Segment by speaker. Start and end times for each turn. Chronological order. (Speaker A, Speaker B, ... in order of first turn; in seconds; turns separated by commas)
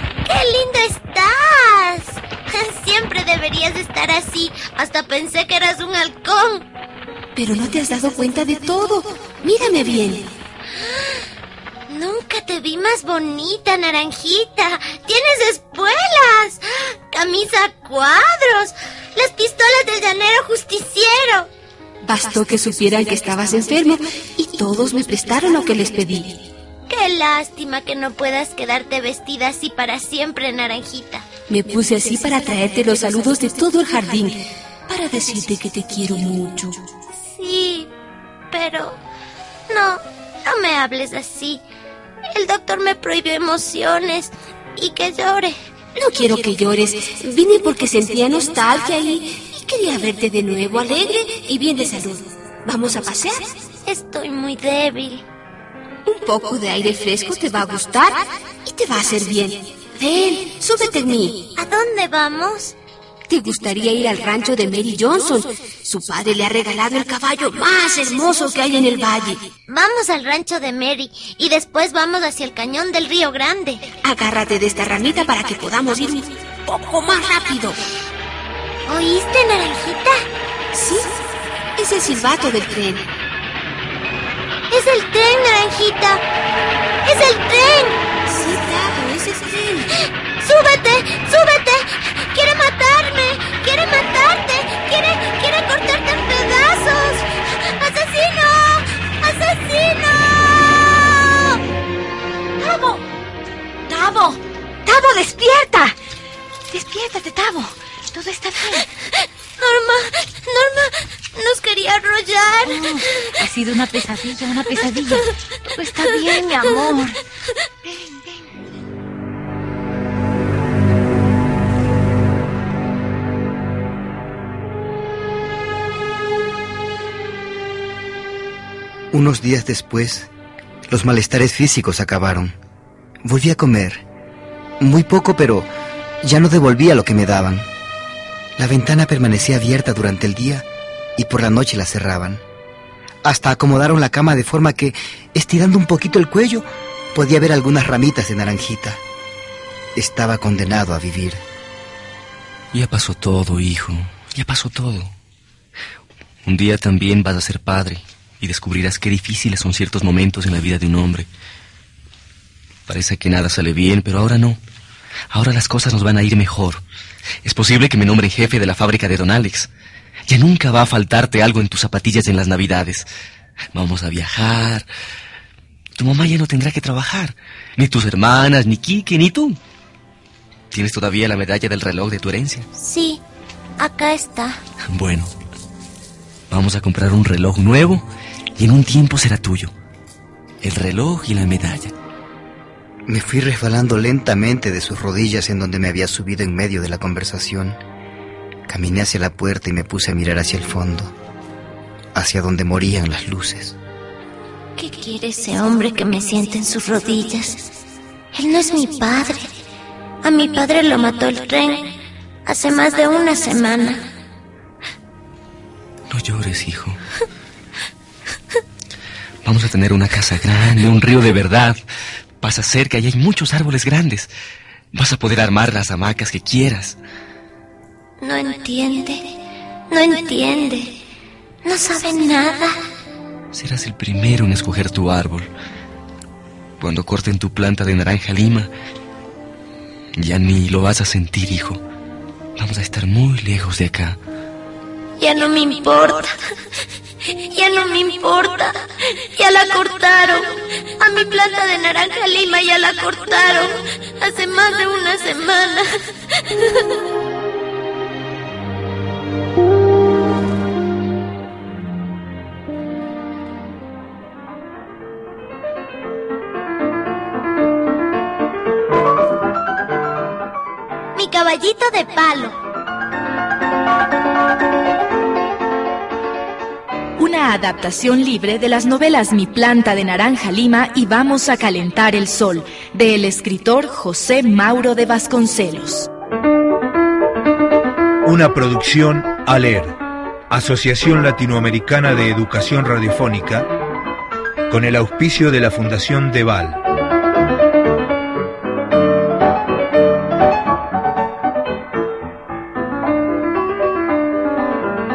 Speaker A: 0.3-6.7, Speaker B: 7.3-10.3, Speaker A: 11.9-21.5, Speaker B: 22.0-26.4, Speaker A: 26.9-31.3, Speaker B: 31.5-36.8, Speaker A: 37.4-37.9, Speaker A: 38.5-39.0, Speaker A: 39.7-41.6, Speaker A: 42.3-45.6, Speaker B: 46.0-53.5, Speaker A: 53.9-55.2, Speaker B: 56.1-61.5, Speaker A: 61.6-62.8, Speaker B: 63.3-69.5, Speaker A: 69.7-73.8, Speaker B: 74.0-77.8, Speaker A: 78.9-80.2, Speaker B: 80.7-81.1, Speaker B: 81.8-83.1, Speaker A: 84.7-86.2, Speaker A: 87.0-88.0, Speaker B: 88.3-89.9, Speaker A: 90.4-101.6, Speaker A: 102.6-103.0, Speaker C: 103.9-106.0, Speaker C: 106.7-108.8, Speaker A: 109.6-113.1, Speaker C: 112.7-117.2, Speaker A: 116.1-117.0, Speaker C: 117.8-118.2, Speaker D: 129.1-130.3, Speaker D: 130.9-132.6, Speaker D: 133.2-134.0, Speaker D: 134.8-135.7, Speaker D: 136.2-137.7, Speaker D: 138.6-140.7, Speaker D: 141.2-142.4, Speaker D: 143.2-149.0, Speaker D: 150.0-151.4, Speaker E: 152.7-155.1, Speaker E: 156.4-161.3, Speaker E: 162.9-164.6, Speaker E: 165.3-166.8, Speaker E: 167.4-169.7, Speaker E: 170.3-173.1, Speaker E: 173.7-174.9, Speaker E: 176.0-179.6, Speaker E: 180.7-182.7, Speaker A: 182.8-183.2, Speaker A: 183.8-184.6, Speaker E: 184.9-185.3, Speaker E: 186.5-188.1, Speaker E: 188.6-189.7, Speaker E: 190.6-191.9, Speaker D: 193.1-197.8, Speaker D: 198.7-201.1, Speaker D: 202.2-203.8, Speaker A: 204.8-207.7, Speaker A: 208.3-209.5, Speaker A: 210.2-211.9, Speaker A: 212.5-214.1, Speaker E: 216.1-217.0, Speaker E: 219.4-221.8, Speaker E: 222.4-224.3, Speaker E: 224.9-227.0, Speaker A: 228.2-229.2, Speaker A: 229.9-231.0, Speaker A: 231.7-232.8, Speaker E: 233.5-235.5, Speaker E: 236.8-238.7, Speaker E: 240.2-241.8, Speaker E: 242.6-244.2, Speaker A: 245.2-246.3, Speaker A: 247.5-248.8, Speaker A: 249.3-250.4, Speaker A: 251.0-256.4, Speaker A: 271.2-272.6, Speaker F: 277.2-286.1, Speaker G: 288.2-289.9, Speaker G: 290.5-293.7, Speaker G: 294.7-296.8